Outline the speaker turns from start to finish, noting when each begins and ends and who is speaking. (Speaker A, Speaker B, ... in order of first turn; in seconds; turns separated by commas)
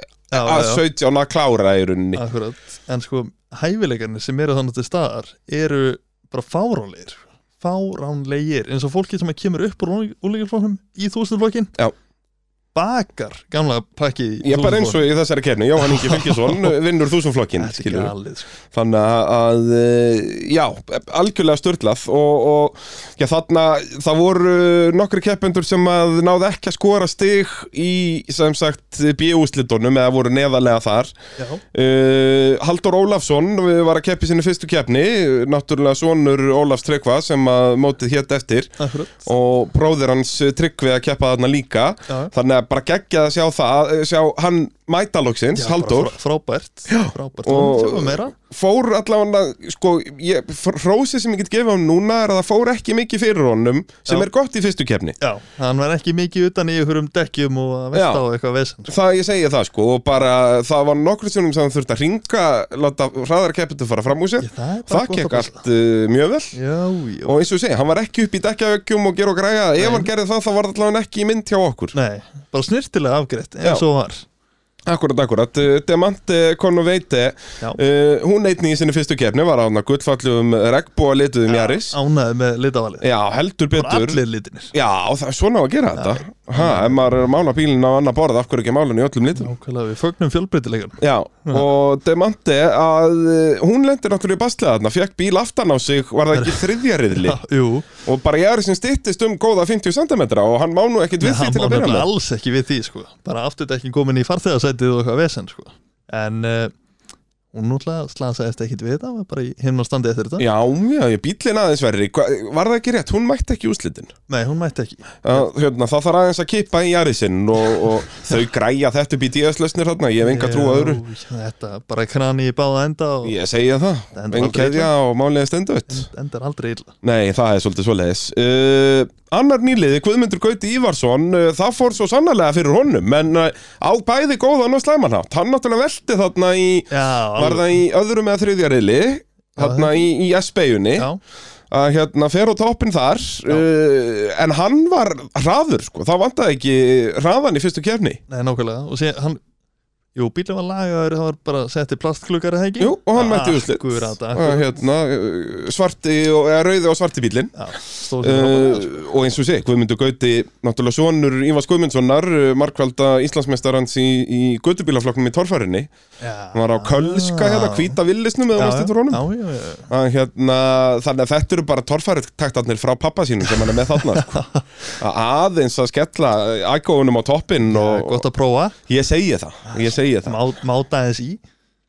Speaker A: 0.3-0.8, Speaker B: 0.3-2.2, Speaker A: 2.1-11.7, Speaker A: 12.7-15.1, Speaker B: 14.4-18.1, Speaker A: 15.8-16.8, Speaker A: 17.6-18.5, Speaker B: 18.7-31.1, Speaker A: 31.4-31.6, Speaker B: 31.7-46.1, Speaker A: 38.8-39.3, Speaker A: 42.1-42.3, Speaker A: 45.5-48.3, Speaker B: 46.9-55.1, Speaker A: 55.2-58.9, Speaker B: 57.9-58.2, Speaker B: 58.9-66.5, Speaker A: 64.4-65.6, Speaker A: 66.5-67.5, Speaker B: 67.2-71.9, Speaker A: 69.8-70.1, Speaker A: 71.9-74.2, Speaker B: 74.8-82.0, Speaker A: 81.5-83.0, Speaker B: 83.0-84.2, Speaker A: 83.7-84.7, Speaker B: 84.7-89.5, Speaker A: 86.0-87.0, Speaker A: 89.4-91.6, Speaker B: 91.0-97.4, Speaker A: 96.3-97.9, Speaker B: 98.0-102.1, Speaker A: 101.2-106.7, Speaker A: 107.5-110.5, Speaker B: 110.4-114.1, Speaker A: 114.3-115.4, Speaker B: 115.2-121.0, Speaker A: 120.2-123.3, Speaker B: 123.2-126.1, Speaker A: 124.1-124.9, Speaker A: 125.9-126.9, Speaker B: 127.0-141.1, Speaker A: 136.9-137.8, Speaker A: 139.6-140.0, Speaker B: 141.7-148.2, Speaker A: 148.3-149.4, Speaker A: 150.1-154.8, Speaker B: 152.8-157.6, Speaker A: 157.5-159.1, Speaker B: 158.2-165.9, Speaker A: 166.2-168.0, Speaker B: 166.5-169.2, Speaker A: 168.5-169.9, Speaker B: 169.9-174.4, Speaker A: 173.9-174.6, Speaker B: 175.0-178.2, Speaker A: 177.7-178.8, Speaker B: 178.9-180.4, Speaker A: 179.7-181.4